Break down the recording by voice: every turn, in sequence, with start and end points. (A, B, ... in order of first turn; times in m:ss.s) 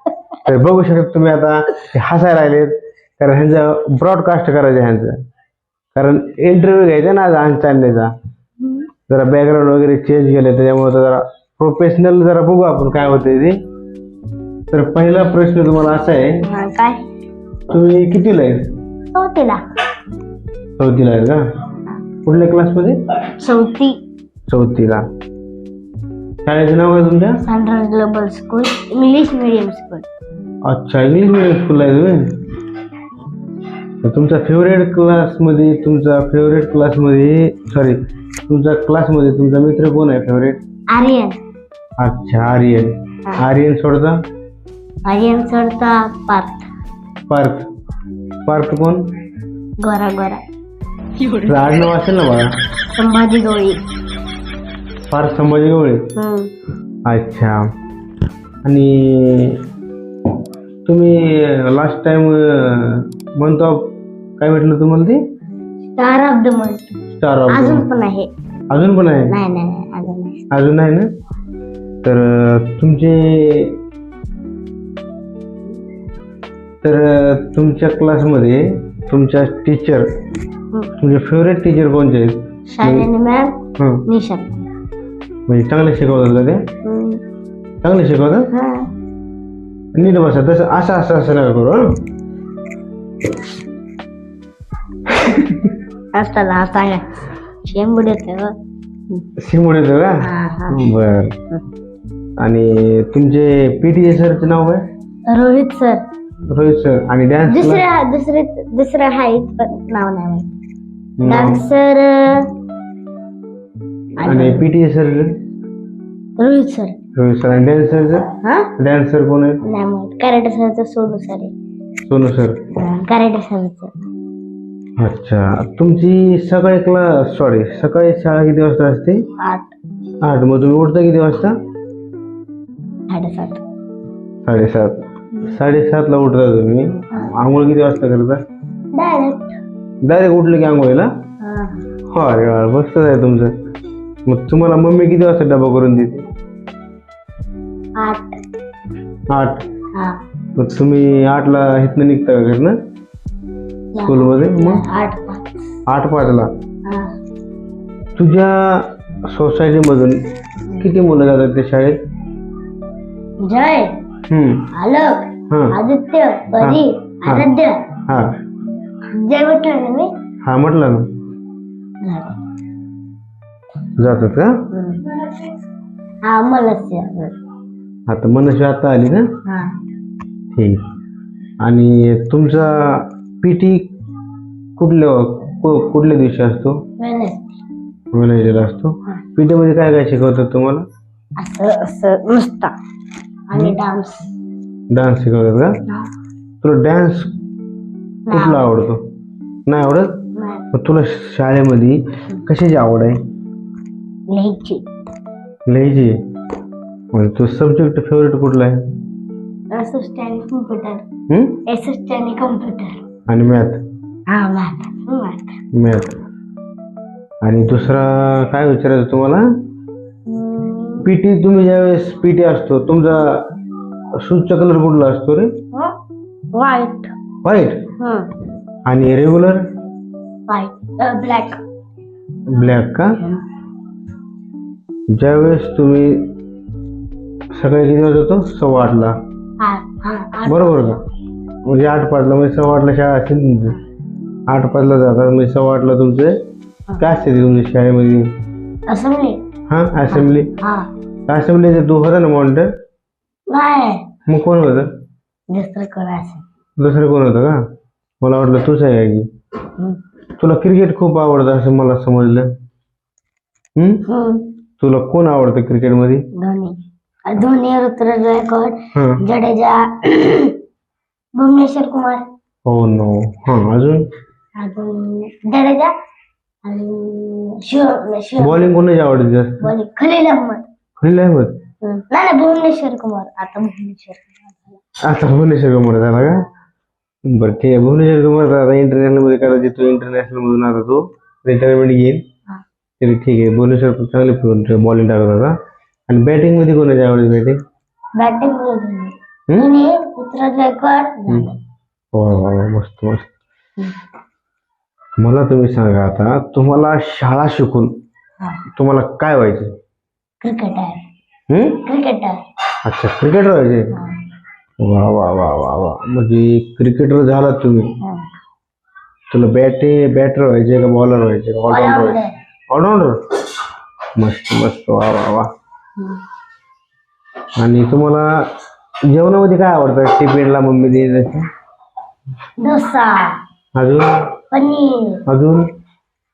0:00.4-0:05.2 A
0:06.0-0:08.1 A
0:09.1-0:13.6 A
0:14.7-0:16.4 A
0:16.4-0:17.0 B
0:17.7-0:18.7 A
0:19.1-0:19.6 B
0:20.8-0:21.4 A
0:22.2-0:23.0 A
0:23.4-0:24.0 B
0:24.5-0:25.0 A
0:26.4-0:27.4 A
0:27.4-0:30.1 B
0:30.7-0:32.3 A
0:34.0-0:40.6 A
0:40.9-0:41.4 B
0:42.0-0:44.2 A
0:45.0-0:46.7 B
0:47.3-0:47.7 A
0:48.5-0:49.0 A
0:49.8-0:50.4 B
0:51.4-0:52.5 A
0:53.0-0:53.8 B
0:55.1-0:56.1 A
0:56.2-0:56.5 B
0:57.1-0:57.6 A
0:58.6-0:59.6 A
1:00.9-1:05.2 A
1:06.0-1:08.3 B
1:07.1-1:07.9 A
1:08.7-1:09.4 A
1:09.3-1:10.4 B
1:10.5-1:11.1 A
1:12.0-1:13.8 A
1:16.8-1:20.1 A
1:21.0-1:23.1 A
1:22.7-1:23.6 B
1:23.8-1:24.0 A
1:24.1-1:24.6 B
1:25.5-1:26.6 A
1:26.8-1:27.2 B
1:27.8-1:28.5 A
1:28.5-1:28.9 B
1:30.0-1:32.0 A
1:35.1-1:35.7 A
1:36.1-1:38.6 B
1:39.4-1:41.4 A
1:40.2-1:40.8 B
1:42.4-1:44.8 A
1:45.3-1:46.0 B
1:46.5-1:47.8 A
1:47.5-1:50.5 B
1:51.2-1:51.6 A
1:51.3-1:52.5 B
1:54.2-1:54.7 B
1:54.2-1:55.3 A
1:56.4-1:57.0 B
1:57.2-1:59.6 A
1:58.4-1:58.7 B
1:59.6-2:01.5 B
2:02.0-2:02.6 A
2:02.8-2:03.9 B
2:05.0-2:09.2 A
2:09.4-2:09.7 B
2:10.2-2:11.6 A
2:13.1-2:13.6 B
2:14.4-2:18.4 A
2:18.9-2:19.6 B
2:20.0-2:21.1 A
2:21.4-2:21.8 B
2:22.1-2:23.5 A
2:24.3-2:26.2 A
2:28.0-2:28.3 B
2:29.3-2:29.6 A
2:30.6-2:32.8 A
2:34.0-2:35.6 B
2:34.0-2:34.8 A
2:35.9-2:36.5 A
2:36.9-2:37.1 B
2:38.2-2:40.2 A
2:40.8-2:42.0 A
2:43.4-2:43.9 B
2:44.3-2:44.7 A
2:44.8-2:47.8 B
2:45.5-2:45.8 A
2:46.6-2:47.5 A
2:48.1-2:48.3 A
2:49.1-2:50.1 B
2:50.5-2:51.1 A
2:52.0-2:52.4 B
2:54.0-2:54.6 A
2:54.7-2:55.2 B
2:56.2-2:57.3 B
2:58.1-2:59.2 A
2:59.5-2:59.7 B
3:00.5-3:00.8 A
3:01.6-3:03.9 A
3:04.8-3:06.8 A
3:07.0-3:07.6 B
3:08.1-3:10.8 A
3:11.4-3:12.7 B
3:13.5-3:14.3 B
3:14.9-3:15.7 A
3:16.6-3:17.3 A
3:18.3-3:18.8 B
3:18.3-3:19.0 A
3:19.7-3:20.1 A
3:20.4-3:20.6 B
3:20.7-3:23.2 A
3:24.3-3:24.8 B
3:25.7-3:26.1 A
3:27.1-3:28.8 A
3:29.7-3:31.0 B
3:31.3-3:31.6 A
3:31.7-3:33.0 B
3:33.3-3:33.8 A
3:34.3-3:35.6 B
3:35.7-3:36.2 A
3:37.4-3:39.4 A
3:40.3-3:41.1 B
3:41.0-3:43.5 A
3:44.2-3:45.5 A
3:46.5-3:47.1 B
3:47.4-3:47.9 A
3:48.0-3:48.3 B
3:48.9-3:49.6 A
3:50.5-3:51.6 B
3:52.5-3:53.1 A
3:55.1-3:56.3 A
3:57.6-3:59.1 A
3:59.6-4:01.0 B
4:00.5-4:01.0 A
4:01.7-4:03.8 A
4:04.5-4:06.3 A
4:07.0-4:08.3 A
4:08.9-4:09.4 B
4:09.7-4:10.5 A
4:10.1-4:10.9 B
4:11.3-4:12.7 A
4:13.5-4:14.1 B
4:14.3-4:14.9 A
4:15.5-4:16.4 B
4:16.8-4:17.6 A
4:18.2-4:19.3 A
4:20.4-4:22.5 A
4:23.8-4:24.0 A
4:24.1-4:24.5 B
4:24.8-4:26.2 A
4:26.4-4:26.8 B
4:27.3-4:30.6 B
4:29.0-4:29.2 A
4:31.4-4:32.2 B
4:32.7-4:34.0 A
4:34.6-4:35.9 B
4:36.6-4:38.8 B
4:38.4-4:39.7 A
4:39.6-4:40.6 B
4:41.0-4:41.6 A
4:41.8-4:44.8 B
4:45.1-4:46.4 A
4:47.3-4:52.2 A
4:53.0-4:55.5 A
4:56.1-4:57.6 A
4:58.2-5:01.6 B
5:02.1-5:03.3 A
5:05.2-5:07.9 A
5:08.8-5:09.7 A
5:10.4-5:11.0 B
5:11.5-5:11.8 A
5:11.8-5:12.4 B
5:12.9-5:13.9 A
5:14.8-5:17.9 A
5:19.3-5:23.2 A
5:21.7-5:22.3 B
5:24.2-5:25.5 A
5:27.6-5:28.3 A
5:29.1-5:31.5 A
5:32.6-5:33.4 B
5:33.8-5:34.0 A
5:34.5-5:35.2 B
5:35.3-5:35.7 A